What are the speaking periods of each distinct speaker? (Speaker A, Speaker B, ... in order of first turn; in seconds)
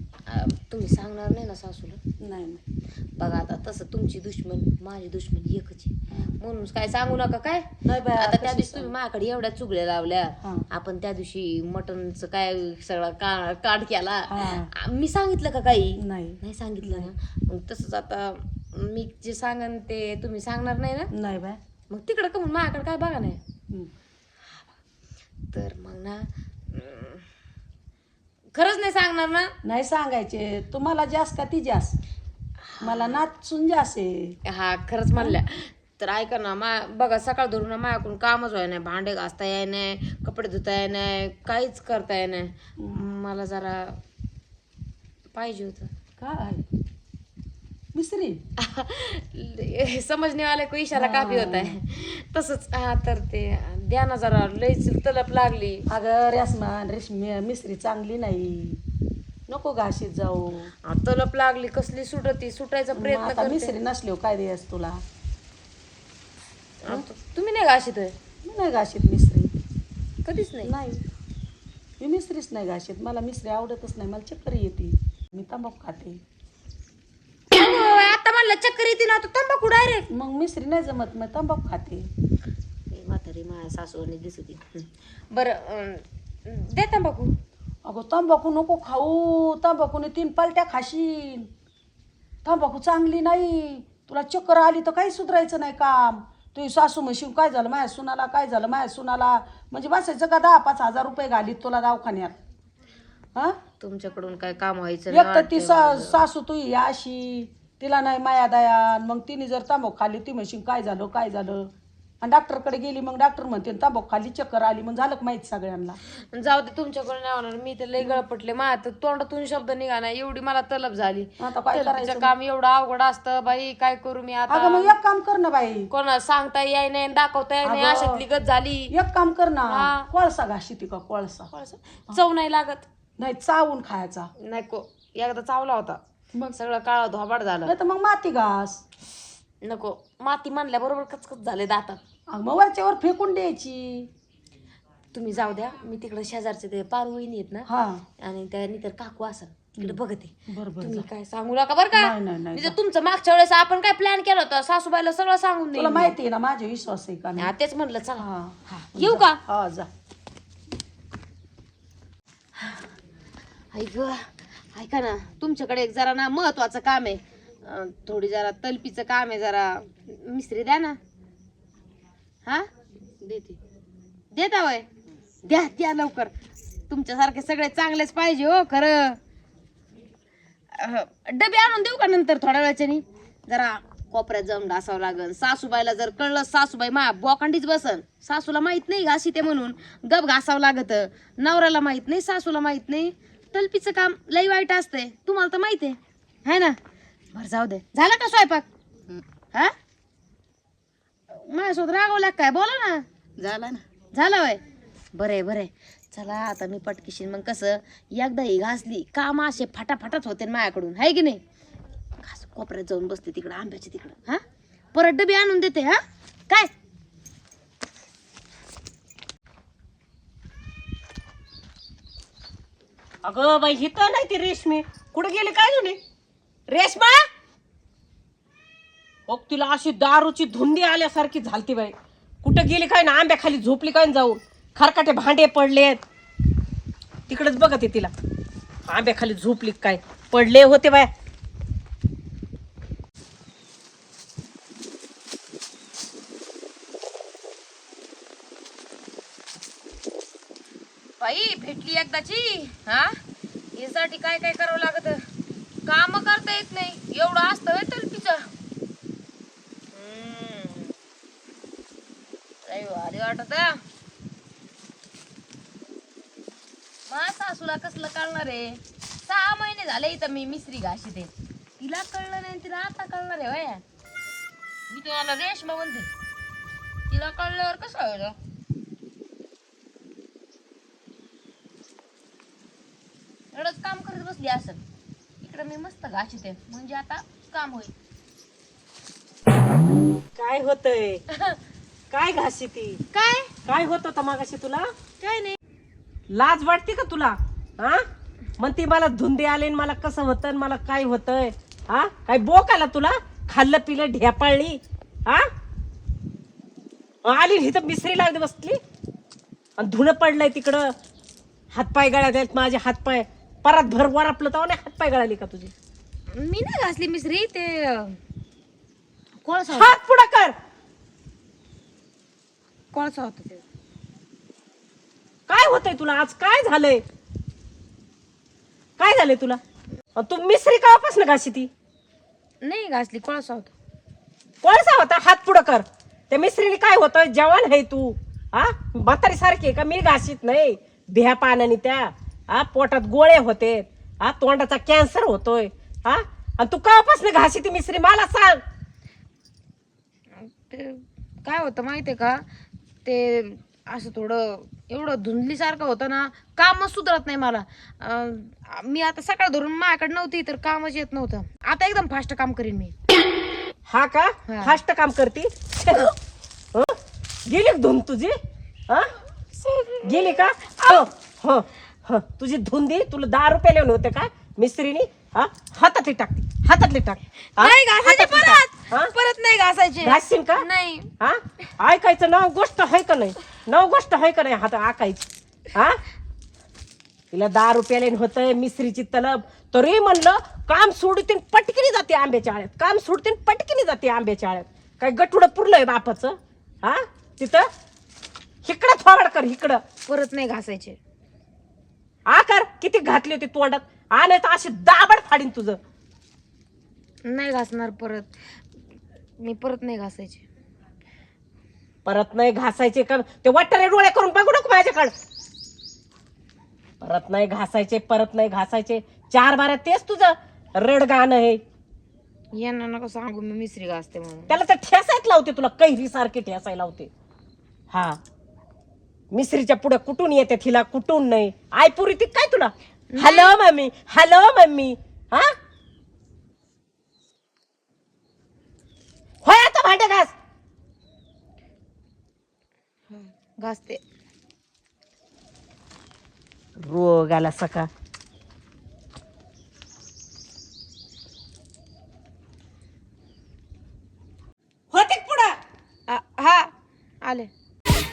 Speaker A: 0.3-2.0, 3.2-21.1, 21.9-23.4, 25.5-27.3, 28.5-29.5, 32.7-33.2, 34.5-44.0, 45.3-45.9, 48.6-55.9, 60.9-63.7, 66.8-68.2, 70.2-70.7, 77.5-80.1, 82.9-87.3, 103.8-106.3, 116.2-125.0, 125.9-128.9, 129.7-130.1, 131.5-132.9, 134.4-136.0, 136.5-137.7, 139.6-142.0, 145.1-147.7, 148.2-156.2, 157.4-159.4, 163.7-171.0, 173.2-173.6, 174.3-174.9, 175.4-176.3, 176.9-179.2, 180.7-196.8, 197.3-198.7, 201.3-204.6, 205.1-211.4, 212.2-214.4, 214.9-216.7, 251.2-253.2, 253.8-255.3, 255.9-258.5, 259.9-260.9, 262.7-263.8, 267.1-273.8, 274.9-276.1, 277.1-278.4, 283.5-284.8, 285.4-287.9, 291.3-291.6, 293.1-293.5, 295.2-295.6, 316.3-318.2, 319.4-319.9, 322.9-323.7, 332.6-333.7, 350.4-352.4, 353.1-363.0, 364.5-364.8, 369.6-371.1, 377.6-381.1, 400.1-401.0, 407.3-408.4, 409.4-410.5, 422.6-424.6, 433.1-433.6, 443.1-444.0, 456.1-456.7, 457.2-457.5
Speaker B: 2.2-2.6, 7.8-8.9, 10.4-10.7, 14.3-14.7, 16.0-17.1, 21.1-21.6, 29.6-32.0, 32.8-34.4, 46.2-46.6, 47.9-48.4, 51.0-51.8, 55.9-58.8, 59.5-60.7, 63.0-65.0, 68.4-69.5, 70.6-71.0, 72.0-76.2, 80.1-82.1, 87.8-91.5, 92.5-102.3, 105.1-111.7, 112.2-116.0, 121.4-122.3, 124.5-125.9, 127.6-128.2, 128.9-131.5, 133.2-134.3, 137.7-138.8, 142.3-144.1, 147.7-148.0, 149.8-151.1, 151.9-152.8, 155.7-157.5, 158.2-159.9
Speaker C: 223.2-226.0, 226.7-227.2, 229.3-236.0, 237.3-238.1, 238.9-241.1, 290.4-291.2, 292.1-293.0, 293.7-294.9, 296.3-298.0, 298.6-305.4, 307.2-308.8, 309.8-310.9, 311.7-315.7, 319.7-320.6, 325.5-327.0, 329.0-329.6, 330.2-331.7, 334.6-348.6, 363.9-366.1, 367.5-368.4, 370.0-379.1, 380.0-380.6, 381.2-386.0, 387.3-397.7, 398.6-399.8, 402.3-405.8, 412.1-415.1, 417.0-421.6, 424.5-427.1, 427.9-428.2, 429.3-435.5, 439.4-440.3, 446.8-447.9, 454.9-455.6